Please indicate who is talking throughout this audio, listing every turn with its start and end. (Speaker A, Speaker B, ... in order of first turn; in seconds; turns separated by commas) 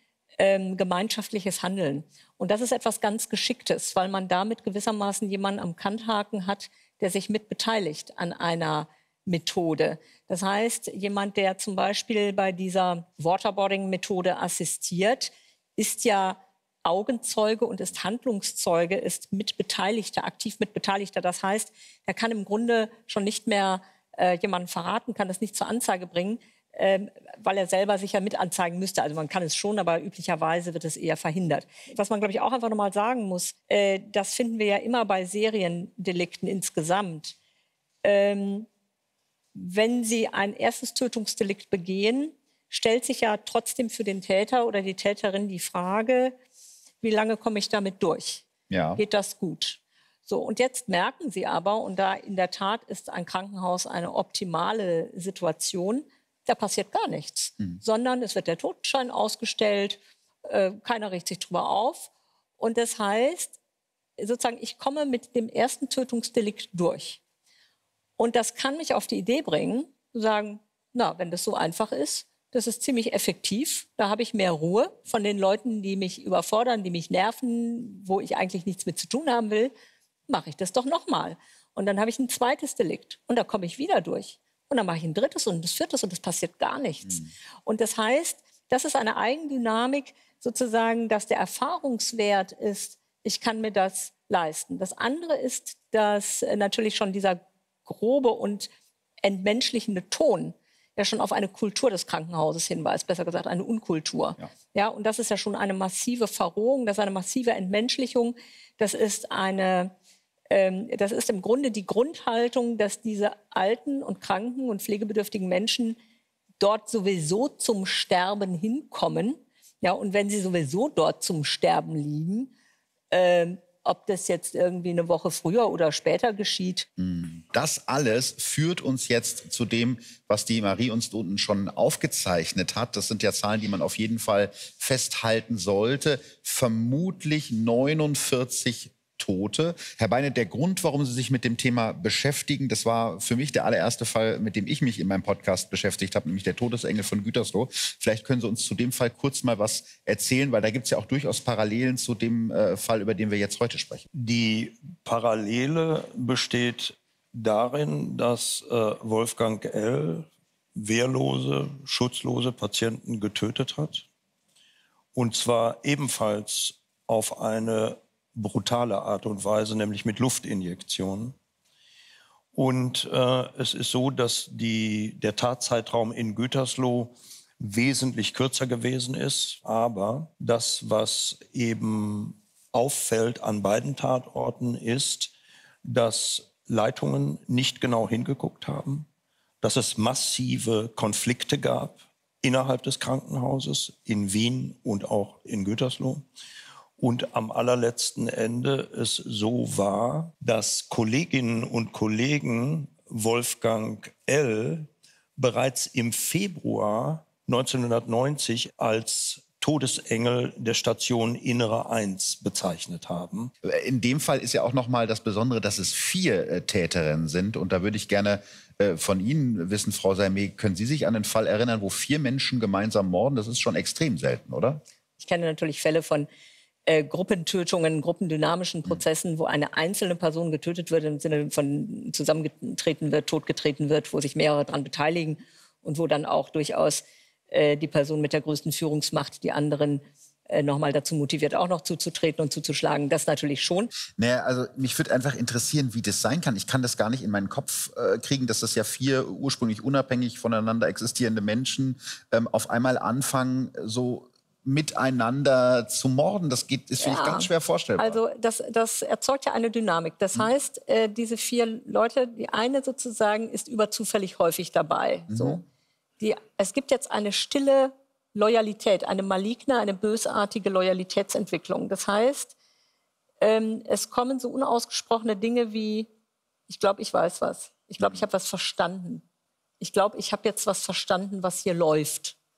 Speaker A: 0.4-37.4, Speaker A: 38.0-38.7, Speaker A: 39.5-46.4, Speaker A: 47.0-63.6, Speaker B: 48.7-49.0, Speaker A: 64.2-67.2, Speaker A: 68.2-79.7, Speaker A: 80.3-98.7, Speaker A: 99.2-109.9, Speaker A: 110.5-116.0, Speaker A: 116.6-122.5, Speaker A: 123.1-126.9, Speaker B: 127.0-154.1, Speaker C: 154.1-164.1, Speaker C: 165.2-171.3, Speaker C: 172.5-185.3, Speaker C: 185.8-189.1, Speaker C: 189.6-196.2, Speaker C: 197.0-213.5, Speaker B: 213.7-224.8, Speaker A: 225.2-226.3, Speaker A: 226.9-243.9, Speaker B: 244.2-258.2, Speaker A: 257.0-265.6, Speaker B: 265.3-265.6, Speaker A: 266.2-272.5, Speaker A: 273.4-276.1, Speaker A: 276.7-279.2, Speaker A: 279.8-282.4